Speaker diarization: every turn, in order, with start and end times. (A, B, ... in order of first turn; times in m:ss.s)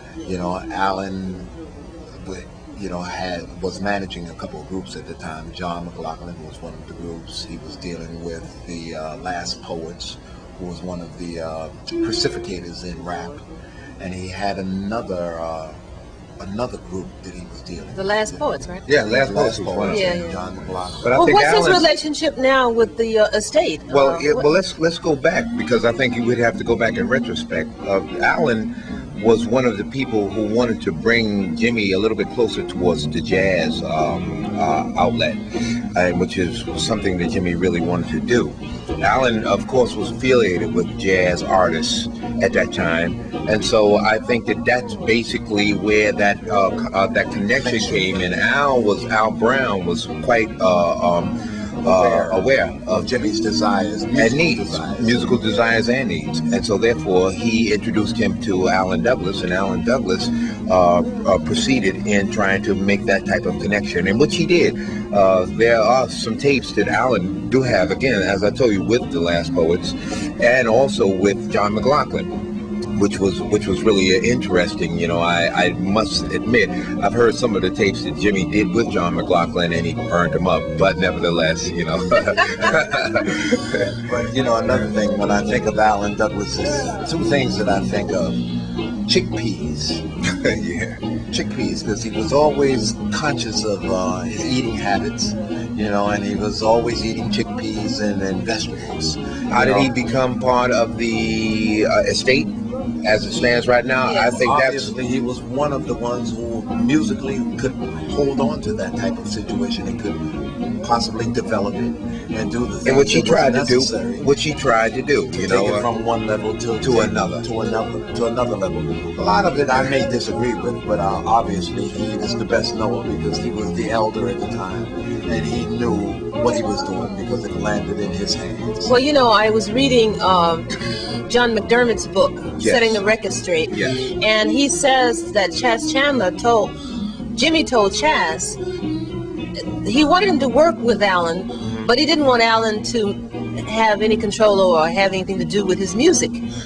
0:00.2-0:01.5 A
0:02.1-0:13.4 A
0:14.0-0:15.8 A
0:16.4-0:21.1 A
0:18.0-0:18.8 B
0:18.9-0:20.2 C
0:19.9-0:20.4 B
0:21.0-0:21.9 C
0:21.1-0:24.5 B
0:23.9-0:35.4 C
0:35.9-0:53.1 C
0:47.6-0:48.2 A
0:51.8-0:55.3 A
0:54.2-1:12.3 C
1:12.9-1:24.0 C
1:24.0-1:28.4 A
1:29.0-1:30.0 A
1:30.3-1:31.0 C
1:31.3-1:39.9 A
1:39.5-1:42.5 C
1:43.0-1:44.9 C
1:44.0-1:44.4 B
1:44.2-1:50.2 A
1:50.8-1:54.3 A
1:52.8-1:55.9 C
1:55.3-2:08.9 A
1:56.8-1:57.4 C
2:08.8-2:10.7 B
2:11.3-2:16.7 B
2:12.6-2:13.0 C
2:13.7-2:14.0 C
2:17.4-2:18.6 B
2:19.8-2:26.4 B
2:21.6-2:21.9 C